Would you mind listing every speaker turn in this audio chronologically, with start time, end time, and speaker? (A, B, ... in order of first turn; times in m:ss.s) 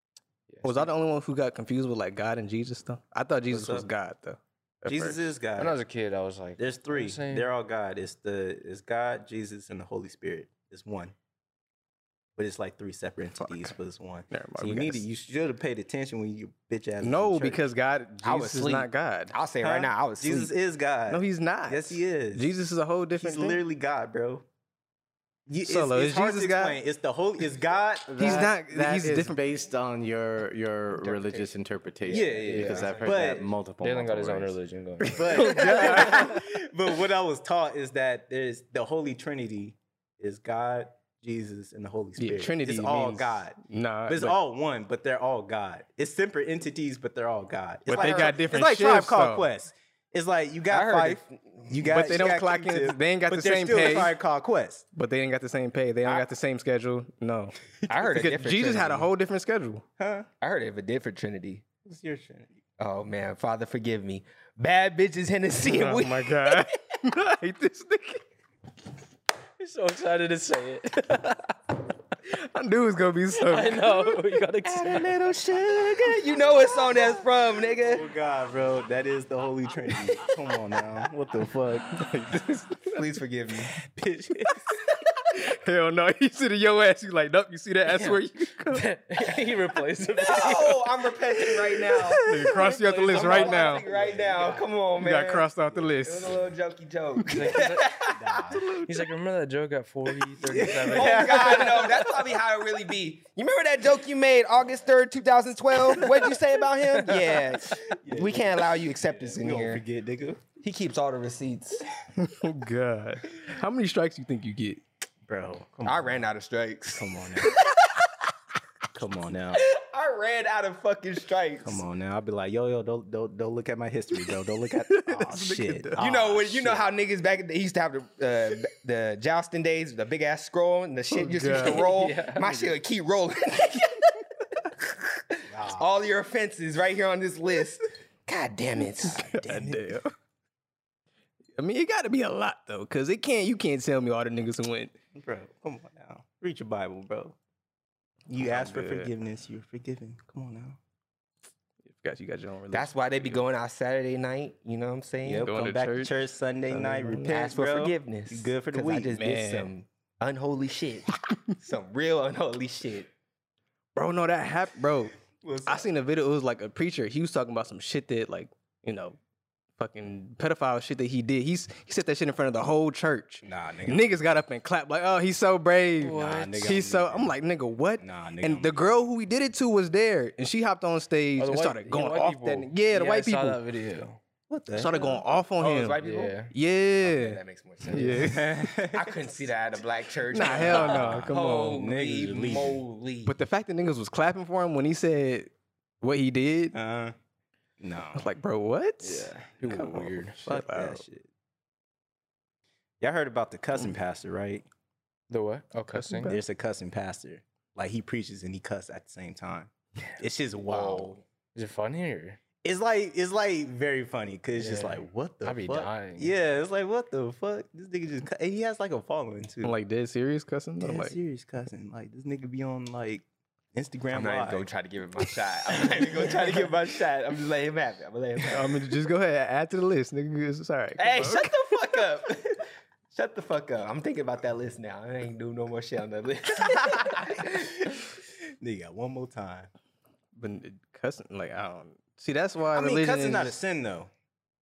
0:00.5-0:00.9 A
0:00.6-0:05.3 B
0:03.5-0:03.9 C
0:04.9-0:05.8 C
0:05.6-0:07.5 A
0:06.6-0:11.2 C
0:12.4-0:17.6 C
0:13.4-0:13.7 B
0:14.3-0:15.0 B
0:17.0-0:19.4 B
0:18.2-0:20.5 D
0:19.6-0:22.5 C
0:21.1-0:23.6 B
0:23.2-0:24.4 C
0:25.5-0:28.4 C
0:25.6-0:26.8 B
0:28.1-0:34.6 E
0:28.2-0:29.4 B
0:31.0-0:31.5 D
0:32.1-0:33.2 D
0:32.1-0:33.5 C
0:32.4-0:33.2 A
0:33.8-0:36.3 A
0:35.1-0:54.9 C
0:35.3-0:36.4 B
0:42.2-0:44.4 B
0:47.9-0:49.5 B
0:47.9-0:48.4 D
0:50.7-0:52.0 D
0:51.8-0:54.2 B
0:54.9-0:59.8 B
0:57.9-0:59.1 D
1:00.0-1:00.3 C
1:00.4-1:01.6 D
1:01.8-1:02.6 C
1:02.8-1:06.6 D
1:05.6-1:08.2 B
1:09.6-1:11.6 A
1:12.3-1:14.2 B
1:13.4-1:15.1 A
1:14.6-1:16.5 C
1:15.8-1:18.0 D
1:17.8-1:22.0 C
1:21.9-1:22.9 B
1:22.9-1:23.7 D
1:23.9-1:24.7 C
1:25.3-1:28.9 B
1:27.9-1:30.9 A
1:30.2-1:32.2 D
1:32.2-1:33.8 B
1:32.3-1:34.6 A
1:33.1-1:38.2 D
1:33.9-1:34.5 C
1:35.0-1:36.4 B
1:37.3-1:38.0 A
1:38.1-1:38.6 C
1:38.5-1:39.1 B
1:38.8-1:42.0 A
1:40.4-1:42.1 C
1:40.9-1:49.8 D
1:47.1-1:47.4 A
1:47.8-1:50.4 C
1:50.6-1:51.8 D
1:52.2-1:54.8 B
1:55.3-1:56.3 C
1:55.8-1:57.7 D
1:57.0-1:57.6 C
1:58.9-1:59.6 C
1:59.6-2:01.8 D
2:01.6-2:06.8 C
2:04.9-2:06.0 B
2:06.0-2:14.1 D
2:11.1-2:11.9 B
2:11.6-2:12.6 A
2:14.8-2:19.3 D
2:15.5-2:15.9 C
2:19.0-2:20.1 B
2:19.2-2:20.0 C
2:21.6-2:25.0 B
2:25.2-2:27.4 C
2:28.3-2:30.8 C
2:28.4-2:29.1 B
2:31.8-2:33.4 B
2:32.7-2:35.5 D
2:35.2-2:39.2 C
2:35.4-2:37.5 B
2:37.3-2:43.1 D
2:39.1-2:39.7 B
2:44.0-2:45.1 B
2:45.4-2:45.9 C
2:45.7-2:49.2 B
2:49.8-3:03.6 B
2:53.4-2:54.1 C
2:56.0-2:56.7 A
2:56.1-2:57.3 C
2:58.0-2:58.8 C
3:01.4-3:04.2 A
3:04.5-3:05.2 C
3:04.7-3:08.7 B
3:05.6-3:06.4 D
3:06.0-3:06.5 A
3:07.0-3:13.4 D
3:08.2-3:09.4 C
3:10.3-3:11.8 B
3:10.5-3:12.8 C
3:13.2-3:16.8 B
3:16.7-3:17.2 C
3:17.8-3:18.3 C
3:18.2-3:21.0 B
3:19.0-3:20.3 A
3:19.6-3:21.3 C
3:23.0-3:24.7 C
3:25.3-3:26.3 A
3:25.9-3:26.4 B
3:26.2-3:31.2 C
3:30.7-3:31.2 D
3:31.6-3:32.4 A
3:32.6-3:39.8 C
3:34.6-3:36.4 A
3:39.6-3:41.2 B
3:40.8-3:44.7 C
3:44.1-3:48.8 D
3:45.8-3:46.7 C
3:48.5-3:51.8 B
3:51.0-3:57.7 D
3:56.7-3:59.7 C
4:00.3-4:03.6 B
4:02.7-4:04.1 C